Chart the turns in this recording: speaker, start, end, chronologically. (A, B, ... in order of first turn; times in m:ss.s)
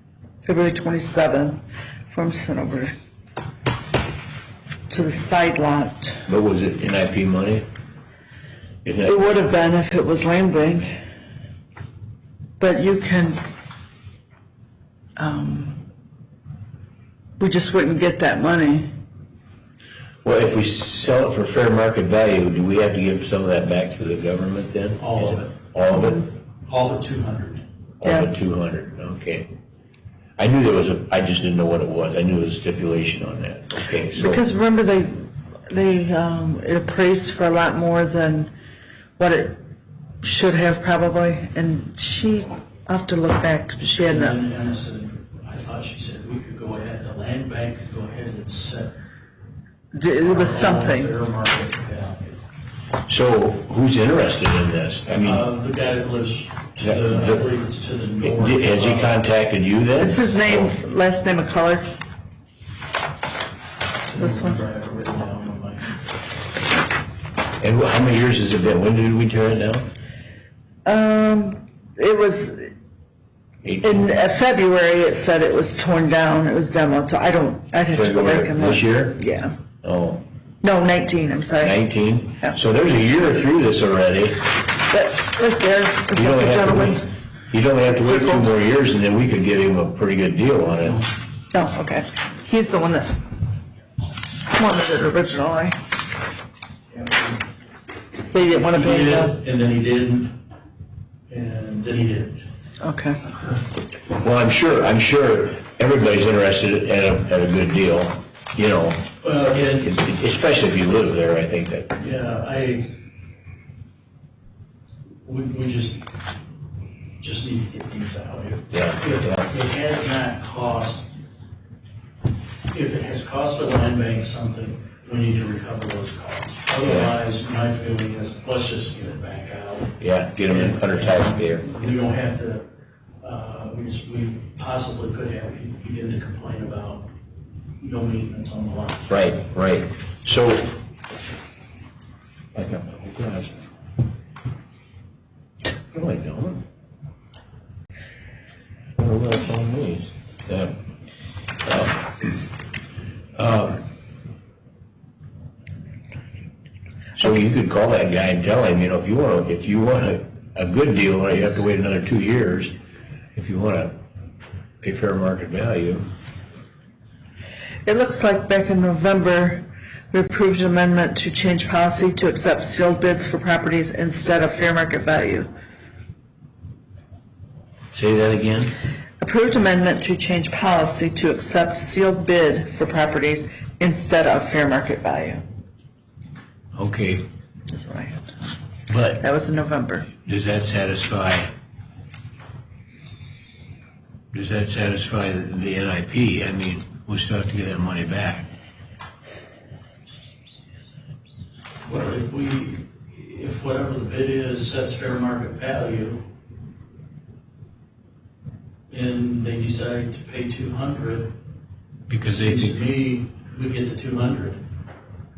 0:00.4-0:02.9 A
0:04.9-0:06.2 A
0:06.3-0:07.7 B
0:08.8-0:09.4 B
0:09.0-0:10.9 A
0:12.6-0:13.4 A
0:15.2-0:15.8 A
0:17.4-0:18.9 A
0:20.2-0:26.3 B
0:25.0-0:25.6 C
0:26.6-0:27.6 C
0:28.0-0:29.5 B
0:28.0-0:28.3 A
0:30.4-0:34.4 B
0:34.1-0:38.5 A
0:39.2-0:39.6 A
0:40.2-0:44.4 A
0:44.0-0:49.0 C
0:49.9-0:51.1 A
0:50.2-0:52.4 C
0:53.1-0:55.5 B
0:55.1-0:59.2 C
0:56.8-0:57.5 B
0:58.2-1:00.8 B
1:00.0-1:01.9 A
1:04.1-1:06.0 C
1:04.2-1:04.6 A
1:07.6-1:09.9 B
1:10.8-1:12.7 A
1:13.6-1:14.1 B
1:13.8-1:19.6 A
1:17.9-1:19.2 B
1:19.8-1:20.2 B
1:20.6-1:21.8 A
1:21.6-1:24.5 B
1:24.9-1:27.1 A
1:26.1-1:31.0 B
1:28.0-1:28.5 A
1:30.8-1:31.1 C
1:31.5-1:33.2 A
1:34.5-1:35.8 A
1:36.9-1:37.4 C
1:38.3-1:39.4 A
1:38.4-1:40.4 C
1:41.3-1:42.4 C
1:42.8-1:43.2 A
1:44.1-1:49.1 B
1:49.2-1:49.9 C
1:49.8-1:52.0 B
1:52.0-1:52.9 C
1:55.2-1:56.1 C
1:57.2-2:01.1 C
1:58.7-1:59.4 B
2:02.7-2:12.7 C
2:06.8-2:07.1 B
2:10.0-2:11.7 B
2:13.2-2:17.1 C
2:17.8-2:19.1 C
2:19.1-2:20.7 B
2:22.5-2:23.6 B
2:25.9-2:26.6 B
2:29.0-2:30.8 B
2:31.6-2:32.4 B
2:33.4-2:33.8 B
2:37.2-2:42.7 B
2:43.3-2:44.0 B
2:44.8-2:46.1 B
2:47.8-2:55.5 A
2:57.9-2:58.8 B
2:59.2-3:05.4 A
3:06.8-3:07.2 B
3:07.7-3:08.4 A
3:08.9-3:09.2 B
3:09.2-3:10.1 A
3:10.2-3:11.5 B
3:14.3-3:18.5 B
3:21.8-3:26.2 C
3:28.9-3:31.3 C
3:32.1-3:32.8 B
3:32.3-3:34.6 C